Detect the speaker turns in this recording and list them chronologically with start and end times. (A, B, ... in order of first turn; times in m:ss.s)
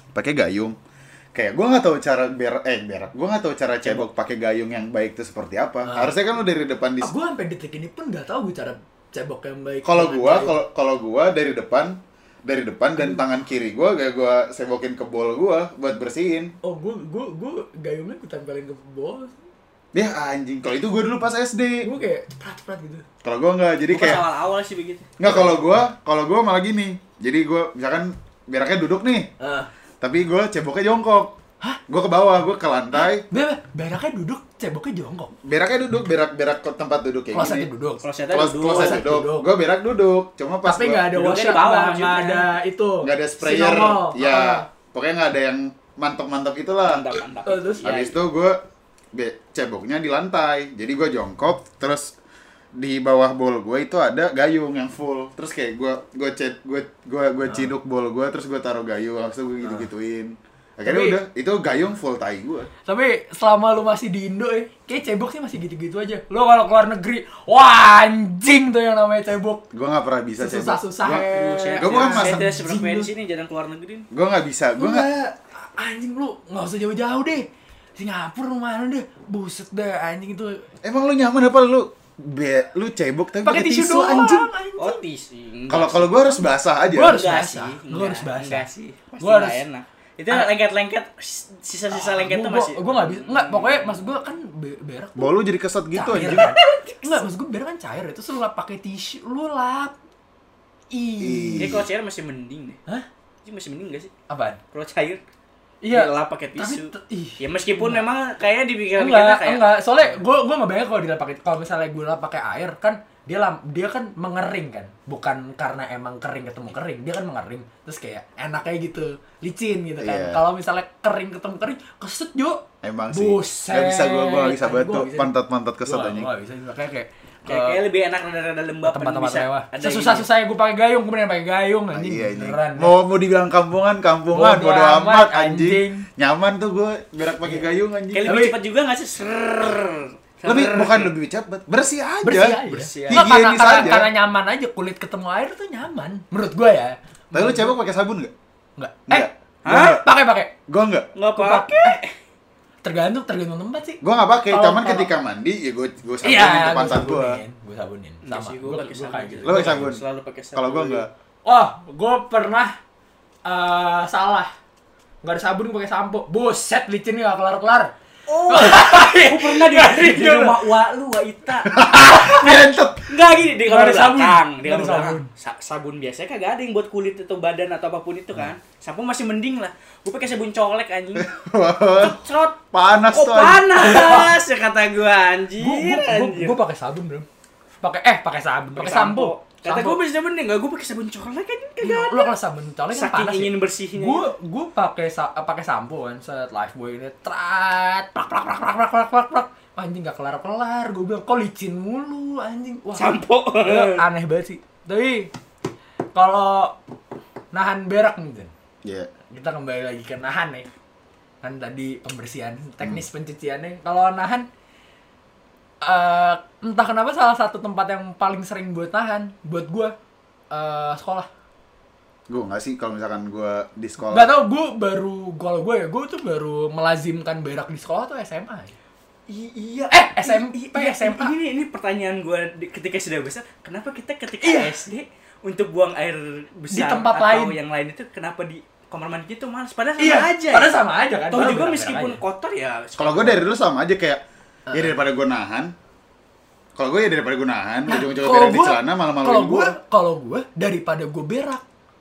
0:00.2-0:00.8 A
0:01.4-0:07.1 A
0:05.9-0:06.1 B
0:07.0-0:10.6 B
0:09.8-0:16.5 A
0:13.0-0:13.2 B
0:16.6-0:19.4 B
0:19.9-0:21.9 A
0:21.8-0:23.0 B
0:23.2-0:24.2 A
0:23.9-0:25.1 C
0:25.2-0:29.3 A
0:25.2-0:25.7 B
0:29.4-0:29.7 B
0:30.0-0:31.3 A
0:31.9-0:33.3 A
0:32.9-0:35.3 B
0:35.4-0:37.7 A
0:37.3-0:38.0 B
0:38.0-0:39.0 C
0:38.3-0:41.1 A
0:38.7-0:39.5 B
0:40.7-0:44.7 B
0:41.1-0:42.5 C
0:43.0-0:47.2 A
0:46.8-0:48.2 C
0:47.4-0:47.9 B
0:47.8-0:48.6 A
0:49.1-0:52.2 A
0:52.8-1:02.7 A
1:00.8-1:01.2 B
1:02.9-1:09.6 B
1:09.7-1:11.3 A
1:10.4-1:13.1 B
1:11.2-1:14.1 C
1:11.8-1:12.4 A
1:14.1-1:15.1 A
1:14.8-1:20.6 B
1:20.8-1:24.5 A
1:23.4-1:25.0 B
1:24.8-1:26.5 C
1:25.7-1:27.2 A
1:26.9-1:28.7 B
1:27.0-1:33.9 C
1:29.2-1:29.6 B
1:31.9-1:35.3 B
1:35.2-1:36.5 A
1:35.9-1:40.0 B
1:36.2-1:37.2 C
1:40.9-1:41.8 B
1:41.2-1:41.9 A
1:41.6-1:42.8 C
1:43.4-1:44.1 C
1:44.3-1:44.6 B
1:44.7-1:45.2 C
1:45.8-1:48.0 B
1:45.9-1:49.6 C
1:49.0-2:05.3 B
2:00.0-2:00.4 A
2:02.8-2:06.3 A
2:05.8-2:07.8 B
2:07.4-2:10.3 C
2:08.8-2:12.9 B
2:11.9-2:18.3 A
2:14.3-2:16.1 B
2:18.1-2:21.1 C
2:18.2-2:18.6 B
2:20.4-2:24.1 A
2:22.2-2:27.7 B
2:22.7-2:23.3 C
2:27.3-2:28.3 A
2:28.8-2:30.5 B
2:29.1-2:30.0 A
2:29.6-2:30.0 C
2:30.7-2:31.1 A
2:31.2-2:32.1 C
2:31.3-2:32.0 B
2:32.8-2:35.1 B
2:34.0-2:37.4 A
2:36.2-2:39.9 B
2:38.2-2:41.0 C
2:39.4-2:40.0 A
2:40.6-2:41.1 A
2:41.5-2:42.8 B
2:43.4-2:44.5 B
2:45.2-2:47.9 B
2:48.3-3:01.3 C
2:48.5-2:50.8 B
2:51.7-2:53.1 A
2:53.6-2:55.3 B
3:01.2-3:02.2 A
3:02.0-3:06.6 C
3:02.7-3:03.7 A
3:03.8-3:04.4 B
3:05.6-3:07.3 B
3:07.8-3:10.0 B
3:08.8-3:12.3 C
3:11.8-3:25.3 B
3:12.9-3:14.2 C
3:23.0-3:24.0 C
3:26.1-3:26.8 B
3:27.5-3:28.5 B
3:28.8-3:29.1 A
3:29.3-3:30.7 B
3:31.4-3:34.5 B
3:35.8-3:40.0 B
3:40.5-3:41.3 B
3:42.3-3:44.3 A
3:44.0-3:48.8 B
3:49.3-4:03.4 C
3:49.9-3:51.3 B
3:54.4-3:54.9 B
3:56.7-3:57.6 B
4:00.0-4:02.2 B
4:03.0-4:04.2 A
4:04.7-4:05.7 A
4:06.8-4:09.8 A
4:07.9-4:11.6 B